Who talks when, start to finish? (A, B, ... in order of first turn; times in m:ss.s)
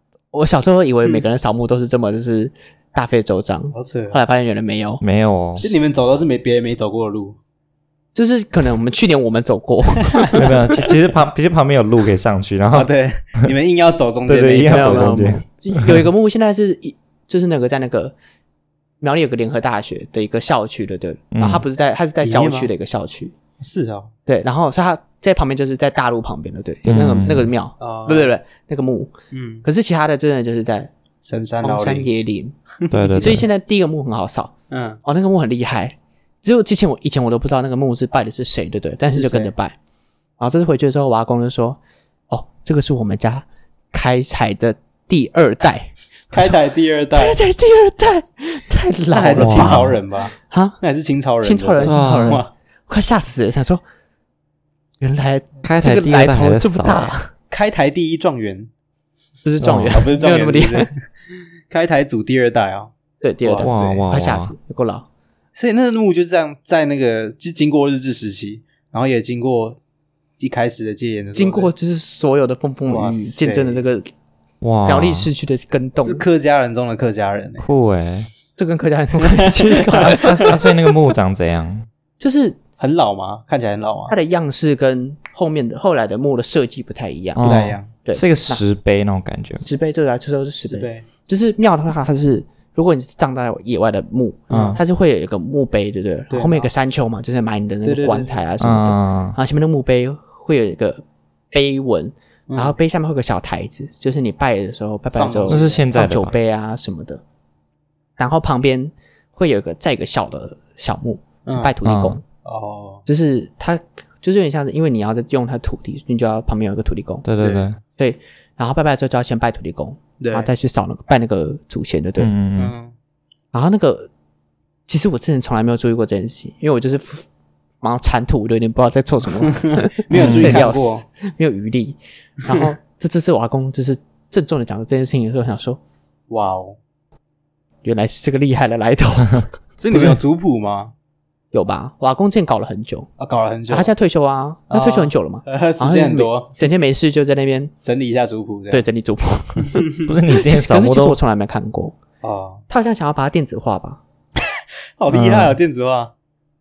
0:00.3-0:05.0 A
0:03.7-0:04.2 B
0:05.0-0:05.7 C
0:05.6-0:07.4 B
0:08.2-0:10.5 A
0:10.1-0:10.5 B
0:10.4-0:12.9 C
0:12.7-0:15.2 B
0:14.3-0:16.0 C
0:14.7-0:18.1 A
0:19.0-0:23.3 A
0:21.3-0:21.6 C
0:22.2-0:22.7 B
0:23.6-0:24.1 B
0:24.3-0:29.1 A
0:26.9-0:27.5 C
0:27.8-0:28.3 B
0:29.3-0:29.6 B
0:29.6-0:30.9 A
0:31.2-0:32.1 B
0:31.6-0:32.6 A
0:32.8-0:33.4 B
0:32.9-0:33.4 C
0:33.2-0:34.5 A
0:34.7-0:35.0 B
0:35.0-0:39.8 A
0:39.2-0:39.5 B
0:40.4-0:45.9 A
0:46.3-0:47.4 B
0:47.1-0:50.8 A
0:49.1-0:52.5 B
0:49.4-0:50.0 C
0:51.4-0:53.8 A
0:51.8-0:52.4 C
0:55.0-0:57.3 A
0:55.6-0:57.1 C
0:57.5-0:58.7 B
0:59.4-1:00.9 A
0:59.6-1:00.0 C
0:59.9-1:01.0 B
1:01.7-1:02.9 B
1:03.2-1:05.1 A
1:03.4-1:04.0 B
1:03.6-1:04.5 C
1:05.6-1:09.8 B
1:10.4-1:11.7 B
1:11.4-1:14.1 A
1:12.9-1:13.8 B
1:14.6-1:15.3 C
1:14.9-1:16.2 A
1:16.0-1:17.7 B
1:17.6-1:18.3 C
1:18.6-1:20.6 A
1:19.2-1:20.6 B
1:19.9-1:21.9 C
1:22.2-1:22.6 A
1:22.8-1:24.2 B
1:24.1-1:27.5 A
1:27.4-1:29.6 C
1:27.4-1:27.9 B
1:28.0-1:28.6 A
1:29.6-1:47.2 A
1:30.6-1:31.0 B
1:34.5-1:34.8 B
1:34.5-1:34.8 C
1:36.3-1:36.7 B
1:37.8-1:38.4 B
1:38.6-1:39.4 C
1:42.5-1:42.8 B
1:45.2-1:45.8 B
1:45.5-1:46.3 C
1:48.2-1:52.2 A
1:51.5-1:51.8 B
1:51.8-1:52.2 C
1:52.4-1:53.0 B
1:53.1-1:57.3 A
1:57.2-1:57.8 C
1:57.4-1:57.7 B
1:58.0-2:02.3 A
2:00.2-2:00.5 B
2:02.2-2:02.8 C
2:02.6-2:02.9 B
2:03.5-2:04.1 A
2:04.9-2:07.3 A
2:07.8-2:15.8 A
2:09.4-2:11.0 B
2:10.1-2:10.6 C
2:16.3-2:16.8 B
2:17.8-2:19.5 A
2:19.8-2:20.9 B
2:19.9-2:20.2 C
2:21.5-2:23.1 A
2:23.2-2:23.9 B
2:23.7-2:27.7 A
2:24.7-2:26.6 B
2:27.8-2:28.8 B
2:28.7-2:32.0 A
2:30.0-2:31.2 C
2:32.2-2:32.6 B
2:32.7-2:34.0 A
2:35.0-2:36.1 B
2:35.1-2:35.6 C